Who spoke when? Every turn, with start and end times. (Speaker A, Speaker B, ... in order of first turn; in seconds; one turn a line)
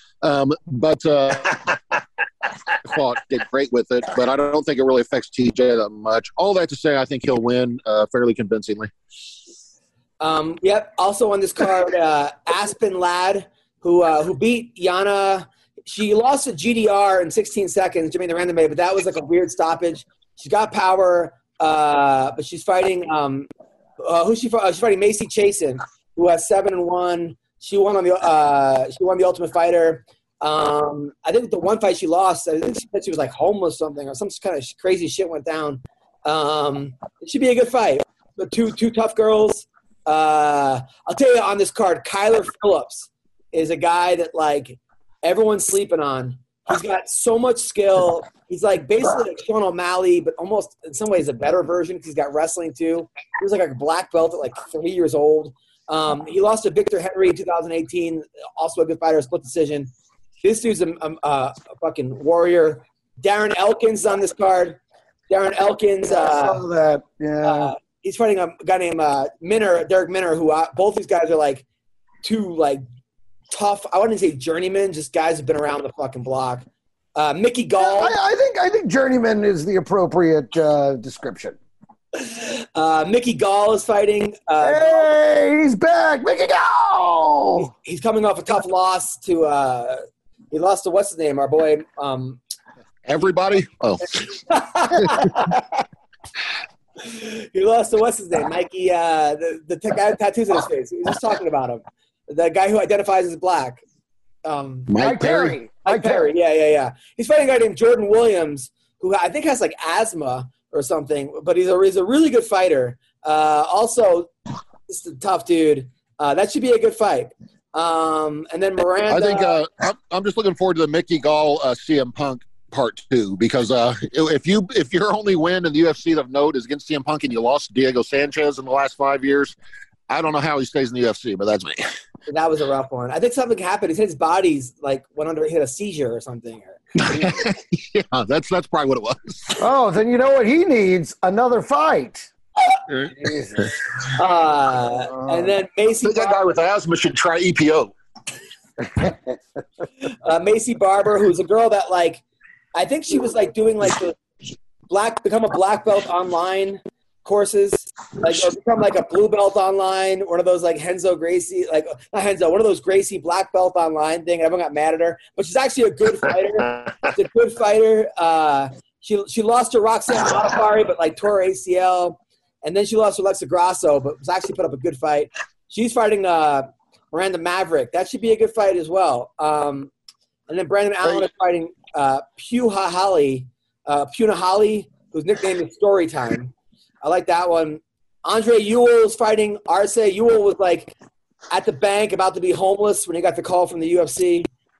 Speaker A: 0.2-1.8
Speaker A: 2.8-8.9
Speaker B: 10.2-23.5
Speaker B: 24.0-59.9
Speaker B: 60.4-66.6
Speaker C: 66.1-67.7
Speaker B: 67.4-71.6
Speaker B: 72.2-72.8
Speaker B: 73.5-78.1
Speaker C: 77.8-81.6
Speaker B: 82.2-85.1
Speaker C: 84.6-87.7
Speaker B: 87.6-92.4
Speaker A: 93.0-94.2
Speaker B: 94.2-95.5
Speaker B: 97.0-103.8
Speaker B: 104.4-104.9
Speaker A: 104.9-105.5
Speaker C: 105.0-106.3
Speaker B: 105.8-114.3
Speaker B: 114.9-119.6
Speaker A: 119.1-129.6
Speaker A: 130.1-131.8
Speaker B: 132.3-136.8
Speaker A: 137.0-139.6
Speaker C: 139.6-142.3
Speaker A: 142.9-143.7
Speaker C: 143.2-143.5
Speaker B: 144.1-146.5
Speaker A: 146.0-147.9
Speaker B: 150.2-152.2
Speaker B: 152.7-154.2
Speaker B: 154.9-179.9
Speaker B: 180.5-190.9
Speaker B: 191.5-194.5